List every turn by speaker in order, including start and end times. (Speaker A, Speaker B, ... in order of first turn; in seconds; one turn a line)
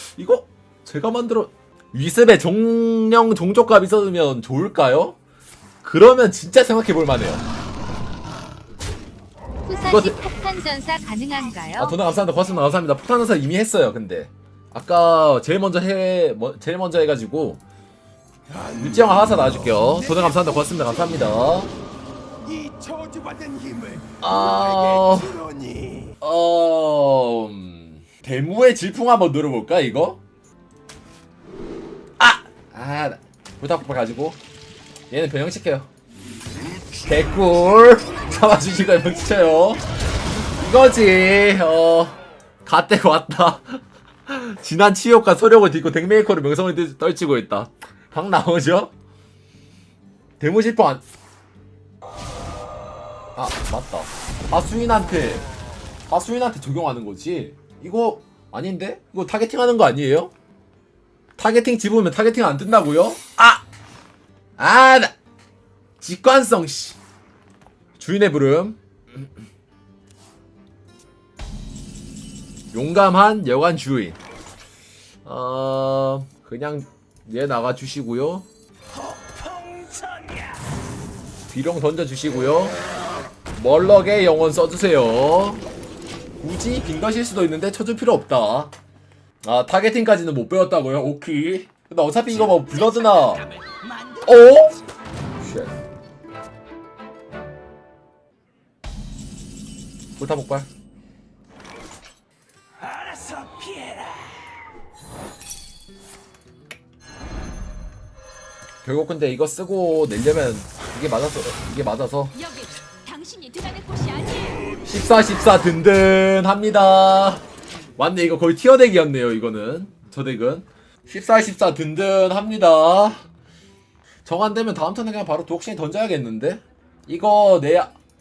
Speaker A: 0.1-5.2
Speaker A: 5.8-7.4
Speaker B: 9.7-12.0
Speaker A: 9.9-10.3
Speaker A: 11.8-17.6
Speaker C: 18.5-20.9
Speaker A: 18.8-21.7
Speaker C: 22.4-26.1
Speaker A: 24.2-25.4
Speaker A: 26.2-30.2
Speaker A: 32.2-34.4
Speaker A: 35.1-35.9
Speaker A: 37.0-48.9
Speaker A: 50.4-51.0
Speaker A: 53.4-55.5
Speaker A: 56.1-60.3
Speaker A: 61.4-63.6
Speaker A: 64.6-65.1
Speaker A: 66.0-67.0
Speaker A: 68.0-68.8
Speaker A: 72.7-74.2
Speaker A: 75.2-78.5
Speaker C: 79.2-80.5
Speaker A: 81.5-82.8
Speaker A: 83.5-85.6
Speaker A: 86.4-88.7
Speaker A: 89.4-93.5
Speaker A: 94.2-94.8
Speaker A: 95.4-95.7
Speaker A: 100.2-100.7
Speaker C: 103.0-104.2
Speaker A: 108.8-112.4
Speaker B: 112.5-114.8
Speaker A: 114.8-117.5
Speaker A: 118.0-123.2
Speaker A: 124.2-127.9